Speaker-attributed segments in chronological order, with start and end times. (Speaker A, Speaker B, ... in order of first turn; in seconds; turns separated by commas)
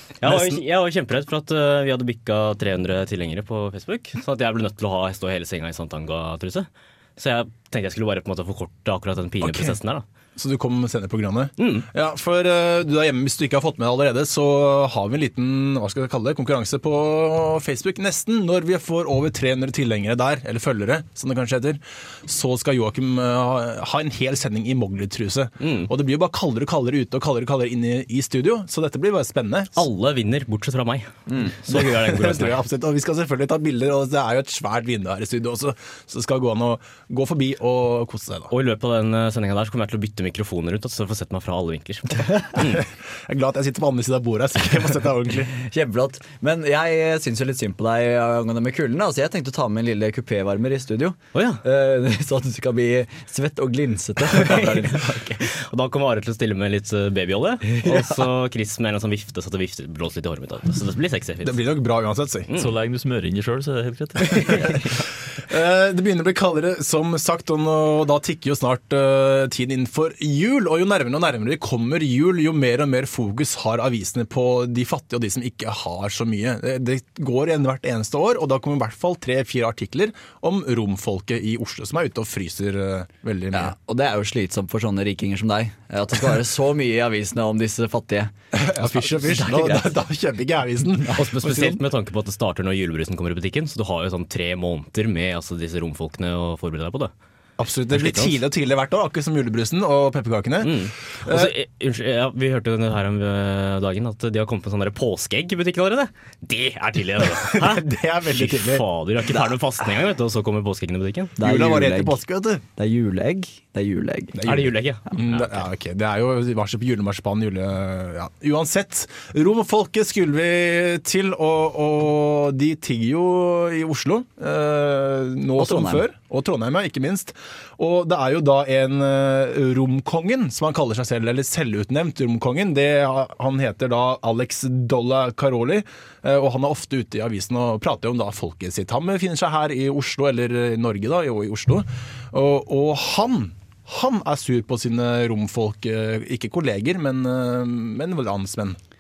Speaker A: 0.2-10.0, Speaker B: 0.2-0.6, Speaker B: 9.4-9.8, Speaker B: 10.4-29.9, Speaker A: 11.6-11.9, Speaker A: 25.6-25.9, Speaker A: 29.8-32.6, Speaker B: 31.4-38.5, Speaker A: 38.5-42.9, Speaker B: 42.6-45.5, Speaker C: 45.6-55.2, Speaker A: 51.3-51.6, Speaker A: 54.3-61.6, Speaker B: 61.4-62.5, Speaker D: 62.5-64.8, Speaker A: 64.2-64.9, Speaker B: 65.4-83.7, Speaker C: 83.5-89.9, Speaker B: 88.5-91.8, Speaker A: 91.1-97.1, Speaker B: 97.6-101.5, Speaker A: 97.9-98.4, Speaker A: 100.6-111.4, Speaker B: 107.2-108.9, Speaker C: 111.4-112.2, Speaker B: 111.4-112.6, Speaker C: 112.8-114.4, Speaker B: 114.3-148.8, Speaker A: 114.4-115.6, Speaker C: 125.6-126.0